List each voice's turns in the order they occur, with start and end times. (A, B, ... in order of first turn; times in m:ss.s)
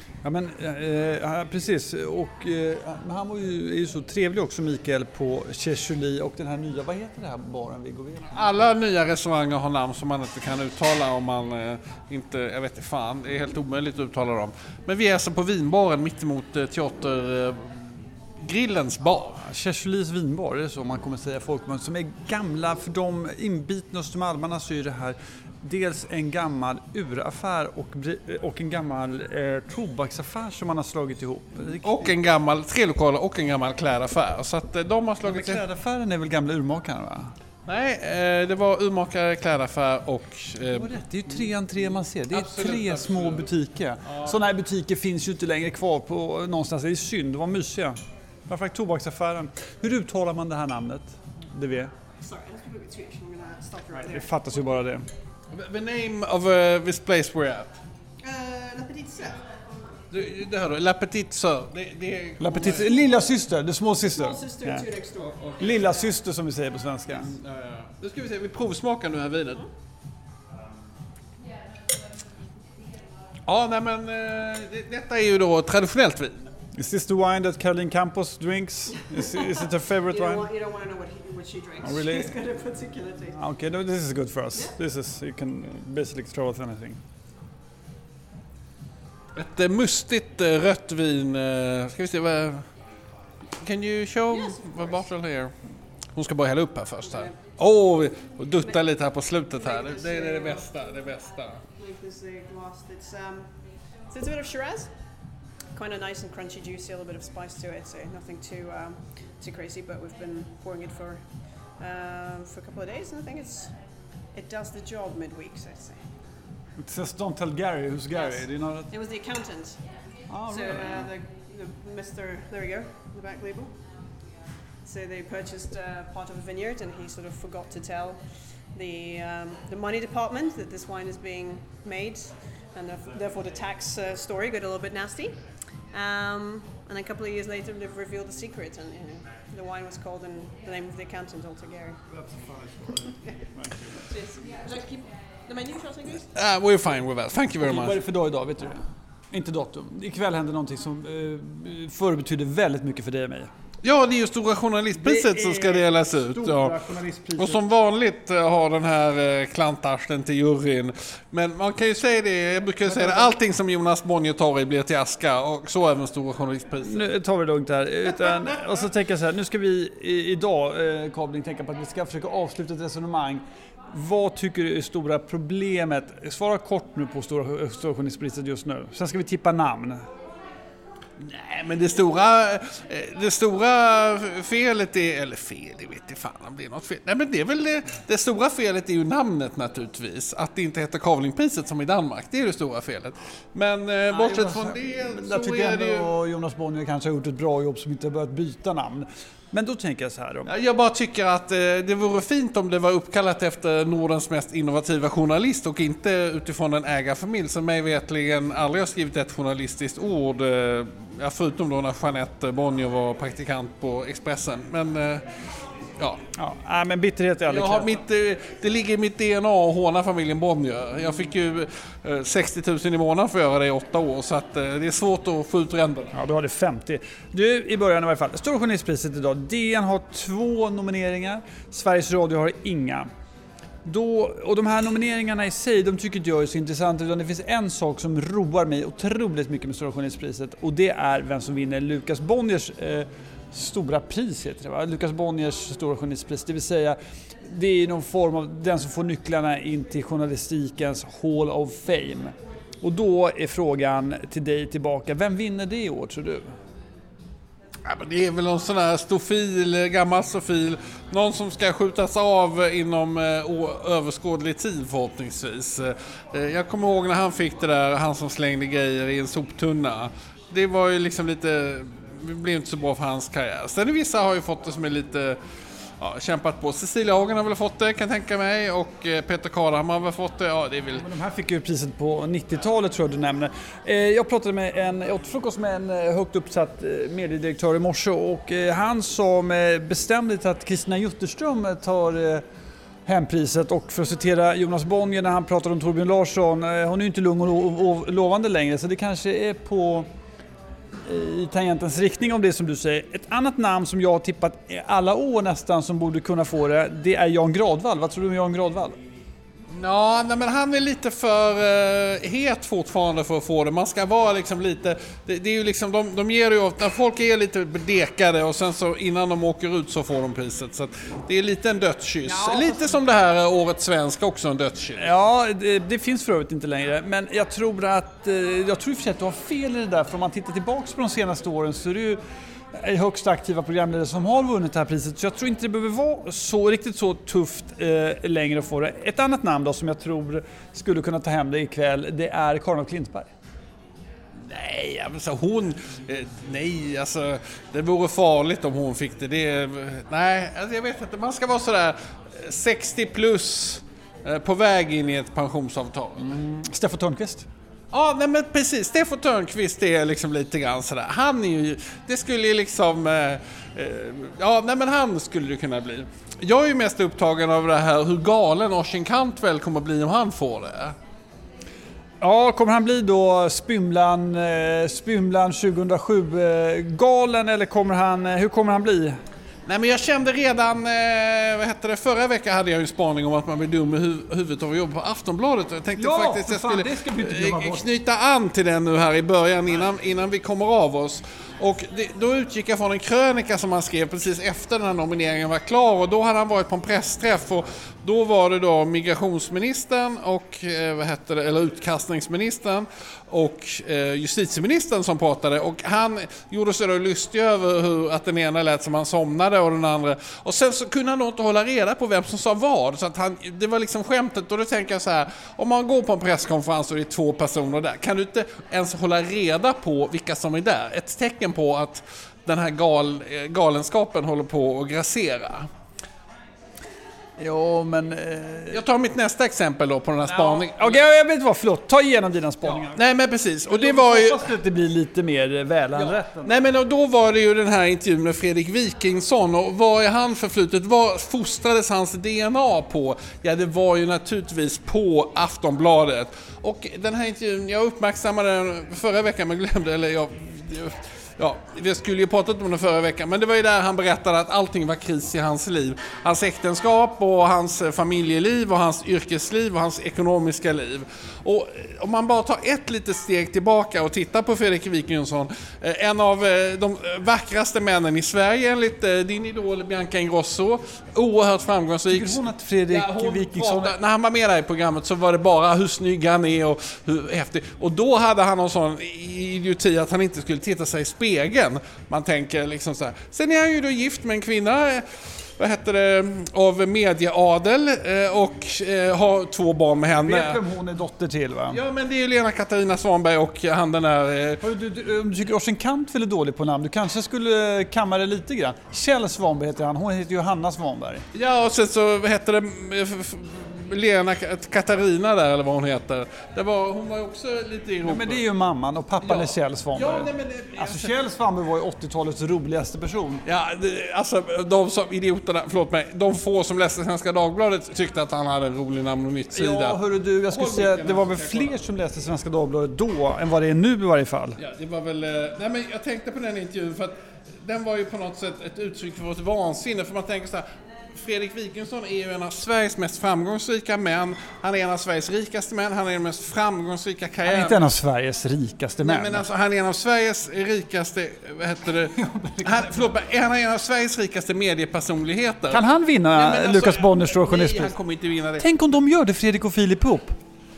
0:00.2-0:08.4 A
0:08.3-0:19.4 B
0:19.4-0:32.1 A
0:31.8-0:35.6 B
0:35.2-0:37.3 A
0:37.7-0:41.0 B
0:40.7-0:51.9 A
0:42.3-0:43.5 B
0:44.0-0:44.4 B
0:52.2-0:54.7 C
0:54.0-0:55.1 A
0:55.5-0:57.8 B
0:58.2-0:59.5 C
1:00.1-1:03.0 B
1:02.4-1:04.9 A
1:04.2-1:06.2 C
1:05.6-1:07.3 A
1:07.1-1:09.7 B
1:13.5-1:16.4 B
1:16.7-1:20.5 A
1:19.1-1:23.4 C
1:21.8-1:22.3 A
1:23.4-1:27.0 A
1:29.4-1:32.7 B
1:33.6-1:35.6 B
1:34.3-1:35.0 C
1:36.1-1:41.6 B
1:37.1-1:37.4 C
1:39.6-1:40.7 C
1:41.8-1:56.1 C
1:56.8-1:58.9 A
1:58.1-2:03.8 C
2:00.3-2:01.1 A
2:04.8-2:22.0 C
2:22.1-2:24.0 A
2:24.0-2:26.2 C
2:26.3-2:28.0 B
2:27.6-2:33.5 A
2:33.8-2:36.8 B
2:35.0-2:37.6 A
2:37.4-2:47.1 B
2:42.9-2:43.3 A
2:46.8-3:00.0 A
3:01.2-3:16.1 B
3:14.1-3:20.5 A
3:20.4-3:35.3 B
3:36.0-3:36.2 B
3:36.4-3:38.0 A
3:37.5-3:46.2 B
3:46.1-3:53.1 A
3:53.8-4:16.6 A
4:17.8-4:35.4 B
4:36.0-4:41.0 B
4:41.0-4:52.4 A
4:53.1-5:00.1 A
5:01.0-5:09.0 A
5:09.7-5:25.1 B
5:22.2-5:22.9 A
5:25.0-5:32.2 A
5:32.7-5:43.3 A
5:44.4-5:56.3 B
5:56.2-5:57.5 A
5:57.9-6:11.0 B
6:12.2-6:19.2 A
6:19.7-7:05.7 B
6:26.0-6:27.8 A
7:07.4-7:08.8 A
7:08.7-7:11.0 B
7:10.3-7:13.0 A
7:12.8-7:14.5 B
7:13.7-7:16.5 A
7:16.0-8:10.6 B
7:52.1-7:54.0 A
8:10.2-8:11.8 A
8:11.7-8:14.6 B
8:14.6-8:21.2 A
8:21.3-8:28.4 B
8:28.0-8:33.4 A
8:29.2-8:31.1 B
8:33.4-8:40.0 B
8:39.5-8:44.6 A
8:40.5-8:41.8 B
8:44.6-8:57.8 B
8:57.4-8:59.4 A
8:59.0-9:05.8 B
9:02.2-9:03.1 A
9:05.7-9:07.9 A
9:06.3-9:08.7 B
9:08.6-9:10.4 A